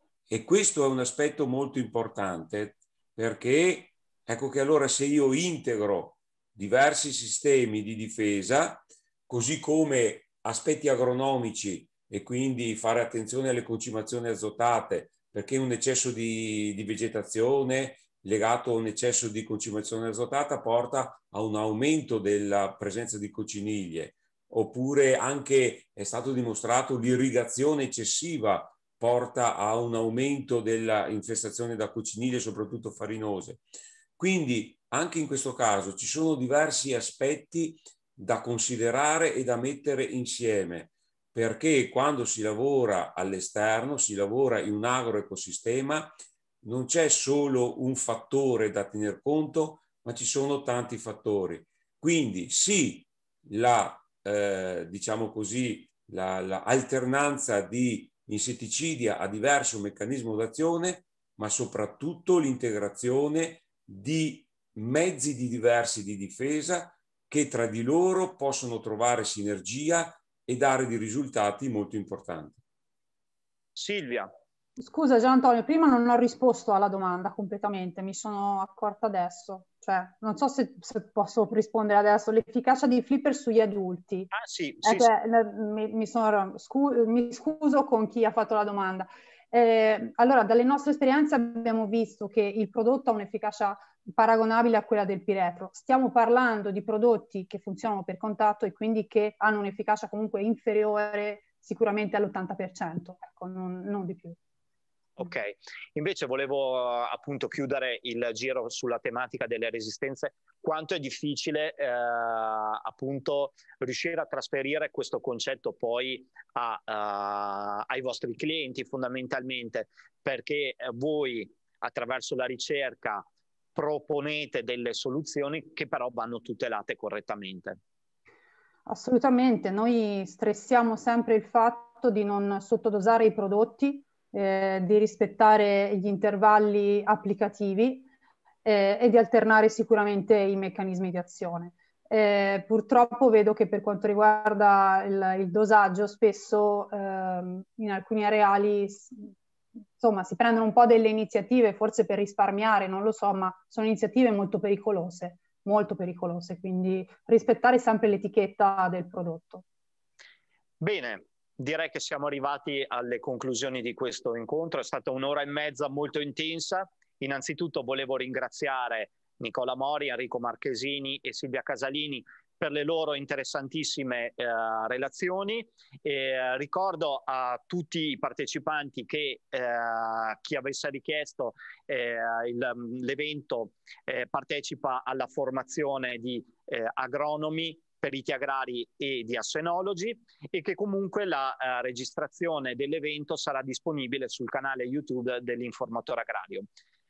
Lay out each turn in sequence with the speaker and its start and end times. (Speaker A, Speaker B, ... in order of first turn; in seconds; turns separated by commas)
Speaker A: 0.3-33.6, Speaker A: 34.2-72.6, Speaker B: 73.8-74.3, Speaker C: 74.8-84.3, Speaker B: 84.3-85.1, Speaker C: 84.8-104.4, Speaker B: 105.2-127.8, Speaker C: 128.8-138.1, Speaker C: 138.6-149.3, Speaker C: 150.0-159.6, Speaker B: 160.8-196.7